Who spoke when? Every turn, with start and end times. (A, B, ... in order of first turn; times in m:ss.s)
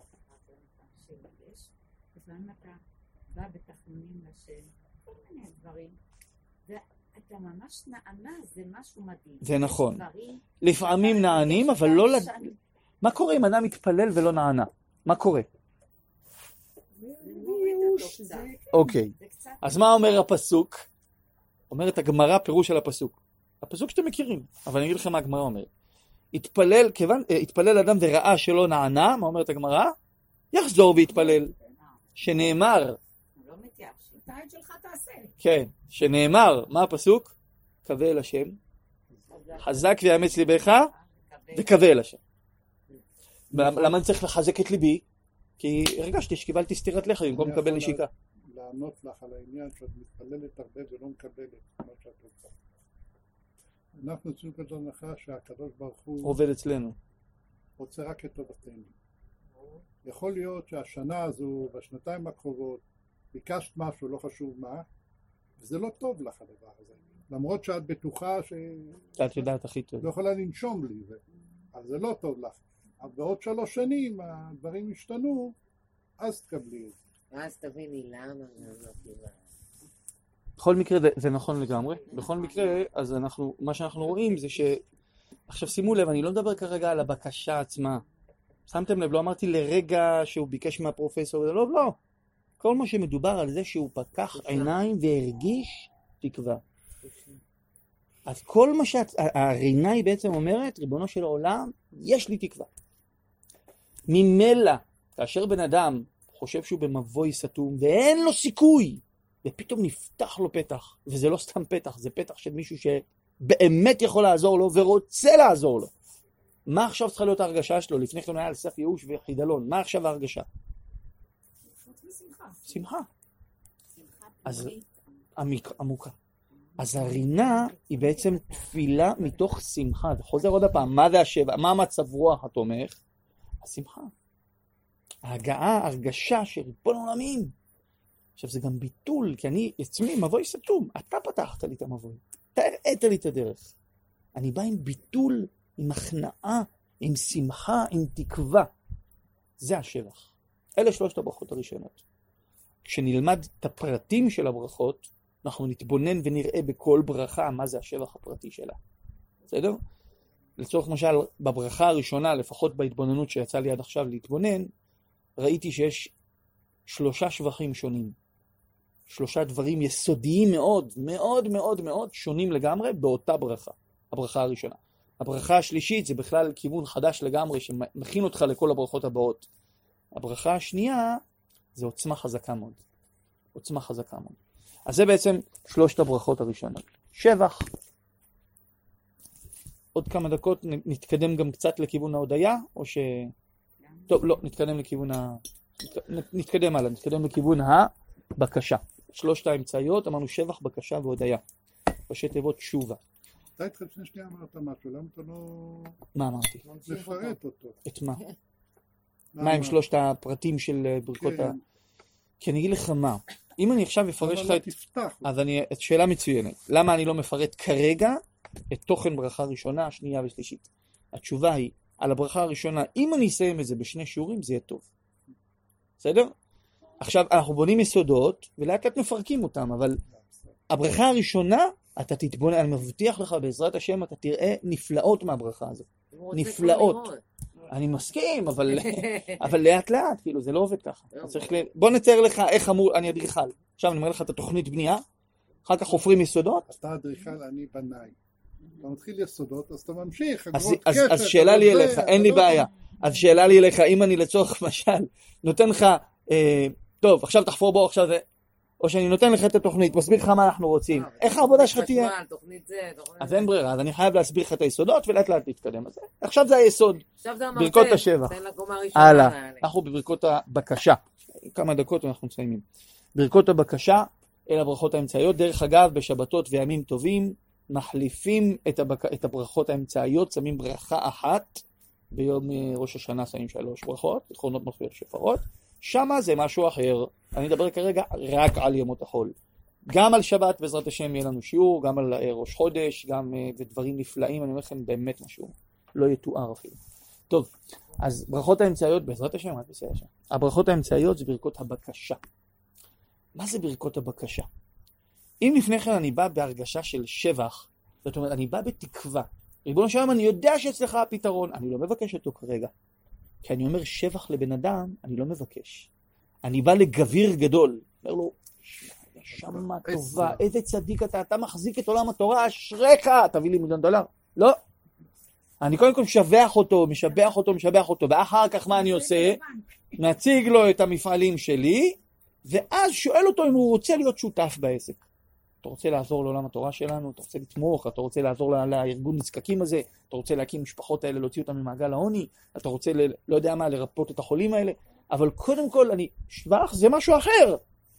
0:00.2-0:06.0 A
0:06.7-0:12.6 A
0:09.4-0:10.0 B
0:10.6-0:12.3 B
0:13.0-0:15.5 B
0:17.0-0:19.0 C
0:17.2-0:19.9 A
0:18.7-0:20.9 B
0:21.7-0:25.7 B
0:26.3-0:30.0 B
0:30.5-0:31.5 B
0:31.1-0:32.4 A
0:32.2-0:33.0 B
0:33.3-0:34.2 A
0:34.2-0:35.3 C
0:35.4-0:37.3 B
0:37.8-0:38.6 B
0:39.3-0:39.6 D
0:39.6-0:41.8 A
0:39.6-0:40.9 B
0:41.5-0:42.2 B
0:43.5-0:44.0 E
0:43.5-0:45.0 B
0:45.6-0:48.1 B
0:47.3-0:52.6 E
0:54.0-0:56.4 E
0:56.2-0:57.0 B
0:57.8-0:58.9 E
1:00.0-1:04.8 E
1:05.6-1:09.1 E
1:09.2-1:10.1 B
1:10.0-1:11.2 E
1:11.7-1:15.6 E
1:16.2-1:17.0 E
1:17.3-1:19.4 D
1:20.6-1:24.8 B
1:22.1-1:22.8 D
1:25.5-1:28.0 B
1:28.7-1:32.0 B
1:32.6-1:36.6 B
1:34.4-1:34.8 D
1:37.0-1:37.4 D
1:38.3-1:42.7 B
1:44.1-1:55.9 B
1:56.7-2:00.5 B
2:01.7-2:02.8 C
2:02.7-2:03.1 B
2:04.0-2:05.0 A
2:04.4-2:04.7 B
2:05.4-2:06.2 B
2:06.8-2:09.6 A
2:06.8-2:13.0 B
2:13.6-2:14.1 B
2:15.2-2:17.5 B
2:18.4-2:23.7 B
2:24.4-2:28.7 B
2:29.6-2:32.0 B
2:32.8-2:38.8 B
2:39.5-2:39.8 B
2:40.6-2:44.7 B
2:45.4-2:46.1 B
2:46.9-2:48.2 B
2:49.1-2:59.5 B
3:00.2-3:01.2 B
3:01.8-3:02.8 B
3:03.6-3:07.7 B
3:10.0-3:13.3 B
3:13.9-3:14.5 A
3:14.1-3:21.4 B
3:22.1-3:23.0 B
3:23.6-3:26.0 E
3:26.2-3:26.6 B
3:26.6-3:27.4 D
3:26.9-3:27.8 E
3:27.9-3:28.2 B
3:29.4-3:29.8 E
3:29.4-3:31.6 B
3:31.2-3:31.6 E
3:32.4-3:44.8 B
3:34.2-3:35.3 E
3:46.0-3:46.3 B
3:47.0-3:50.0 B
3:50.7-3:57.1 B
3:56.1-3:57.2 D
3:57.7-4:05.0 B
3:58.7-3:59.4 D
4:01.1-4:01.5 D
4:05.7-4:06.7 B
4:06.7-4:08.2 E
4:08.8-4:12.7 E
4:10.5-4:18.2 B
4:18.8-4:22.1 B
4:20.9-4:23.5 D
4:23.2-4:27.0 B
4:27.2-4:29.7 D
4:27.6-4:28.4 B
4:29.0-4:32.6 B
4:33.2-4:49.3 B
4:49.9-4:56.8 B
4:57.3-5:02.2 B
5:03.4-5:04.5 B
5:05.4-5:12.7 B
5:13.4-5:15.9 B
5:16.4-5:24.6 B
5:19.4-5:20.4 E
5:25.6-5:29.4 B
5:28.5-5:30.0 C
5:30.0-5:35.0 B
5:35.6-5:47.6 B